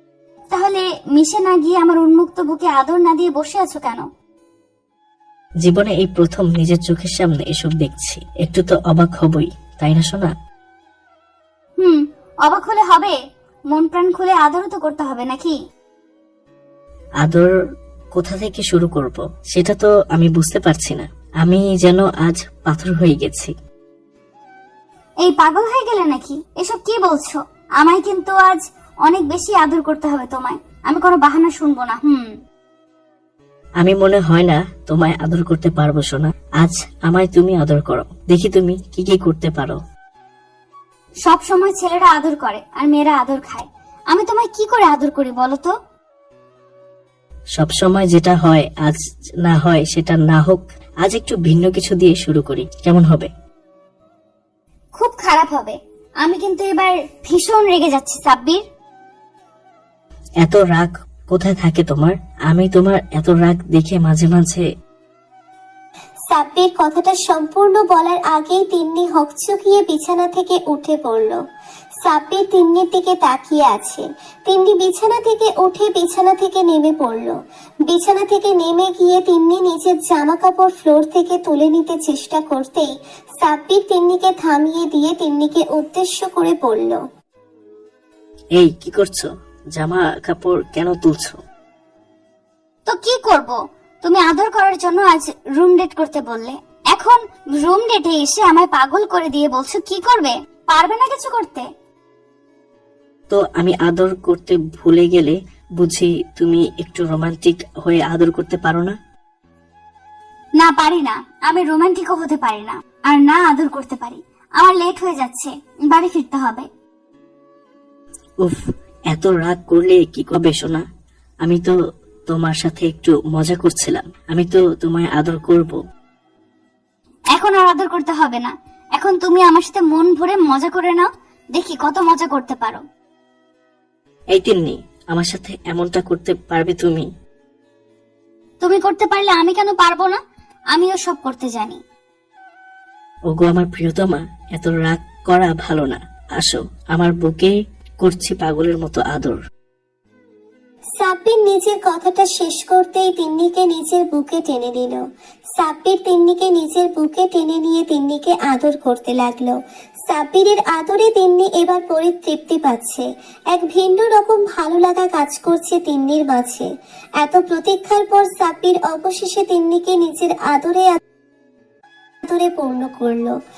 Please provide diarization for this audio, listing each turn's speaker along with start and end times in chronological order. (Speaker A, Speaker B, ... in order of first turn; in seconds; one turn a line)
Speaker A: 0.5-4.0
Speaker B: 5.6-10.3
Speaker A: 11.8-13.2
Speaker A: 13.7-15.6
Speaker B: 17.2-17.5
Speaker B: 18.1-23.5
Speaker A: 25.2-32.3
Speaker B: 33.8-39.8
Speaker A: 41.2-45.7
Speaker B: 47.6-53.3
Speaker A: 55.0-58.6
Speaker B: 60.4-64.7
Speaker C: 66.3-71.4
Speaker C: 72.0-77.3
Speaker C: 77.9-82.9
Speaker C: 83.4-87.0
Speaker B: 88.6-91.4
Speaker A: 92.9-101.6
Speaker B: 103.3-109.0
Speaker A: 110.6-116.7
Speaker B: 119.1-120.8
Speaker B: 121.4-121.7
Speaker B: 122.3-125.8
Speaker A: 127.4-132.8
Speaker B: 134.3-137.1
Speaker A: 138.6-140.2
Speaker A: 140.7-141.8
Speaker B: 143.3-149.4
Speaker C: 151.0-155.0
Speaker C: 155.6-159.5
Speaker C: 160.1-166.7
Speaker C: 167.2-171.0
Speaker C: 172.3-173.3